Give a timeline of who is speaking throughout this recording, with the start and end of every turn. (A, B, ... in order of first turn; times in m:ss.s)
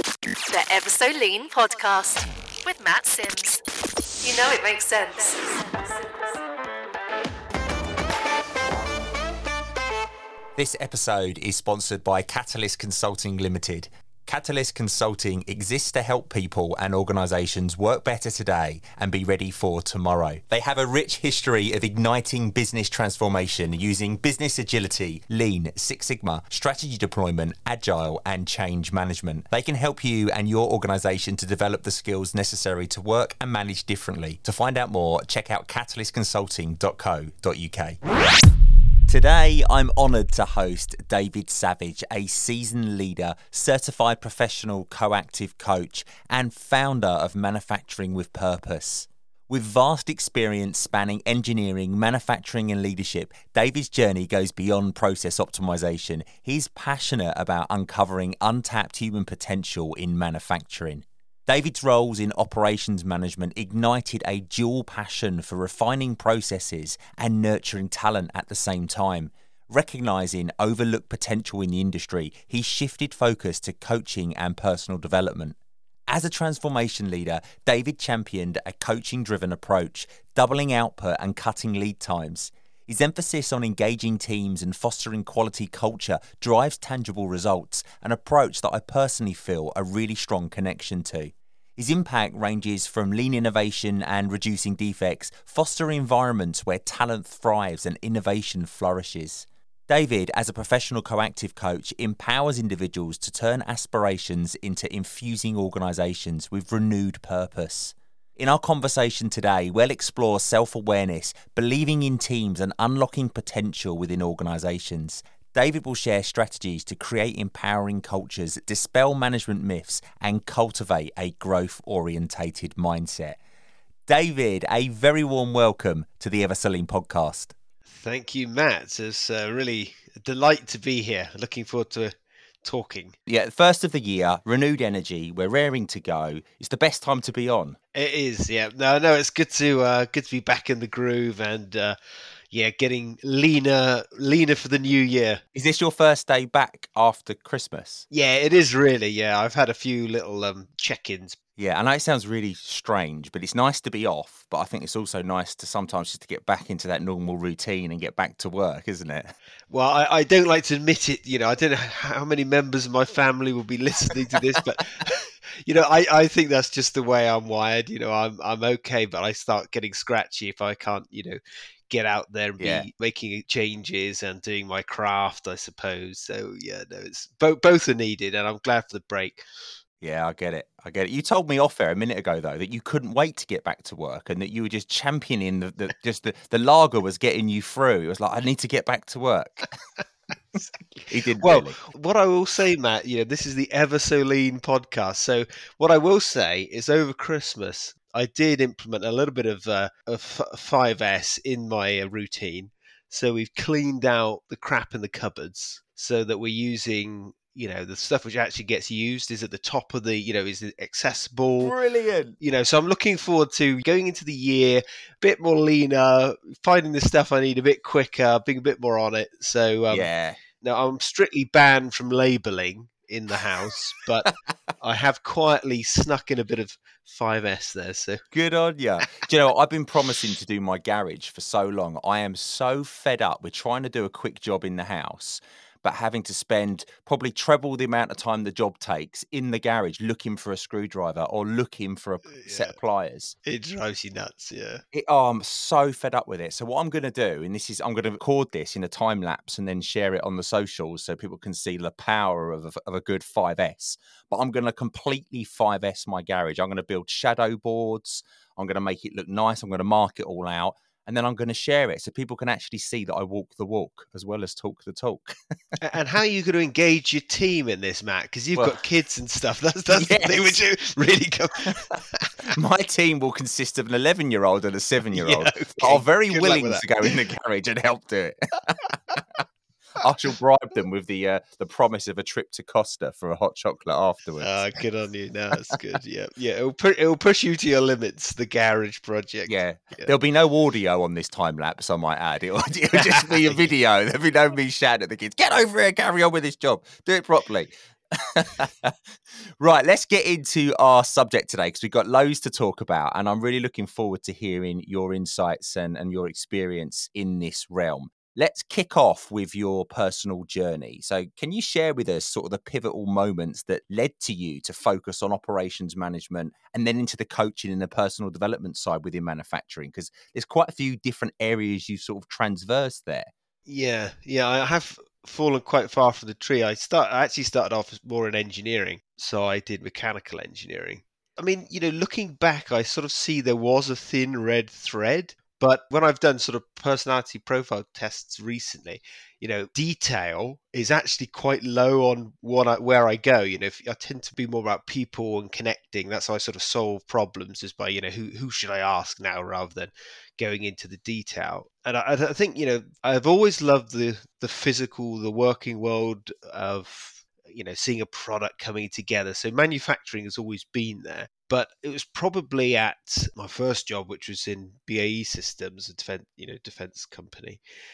0:00.5-0:03.6 A
0:04.2-0:06.4 A
0:10.6-0:38.0 B
0:39.1-1:15.6 B
1:16.1-2:03.4 B
2:04.1-2:07.5 B
2:07.9-2:13.2 C
2:13.3-2:17.8 B
2:17.9-2:22.0 C
2:22.5-2:25.4 C
2:25.5-2:28.0 B
2:28.1-2:31.4 C
2:31.6-2:39.3 B
2:39.7-2:59.4 C
2:52.6-2:52.9 B
3:00.0-3:09.7 B
3:11.1-3:11.7 B
3:11.4-3:31.7 C
3:31.6-3:32.4 B
3:32.4-3:40.1 C
3:39.9-3:40.4 B
3:40.6-3:48.2 C
3:48.3-4:03.3 B
4:02.4-4:02.8 C
4:03.4-4:04.8 C
4:04.9-4:25.3 B
4:25.8-4:32.3 C
4:29.9-4:30.6 B
4:32.5-4:39.2 B
4:35.1-4:37.1 C
4:40.0-4:44.7 B
4:44.4-4:50.1 C
4:49.4-4:58.9 B
4:52.9-4:53.7 C
4:59.6-5:23.3 B
5:23.7-6:07.6 C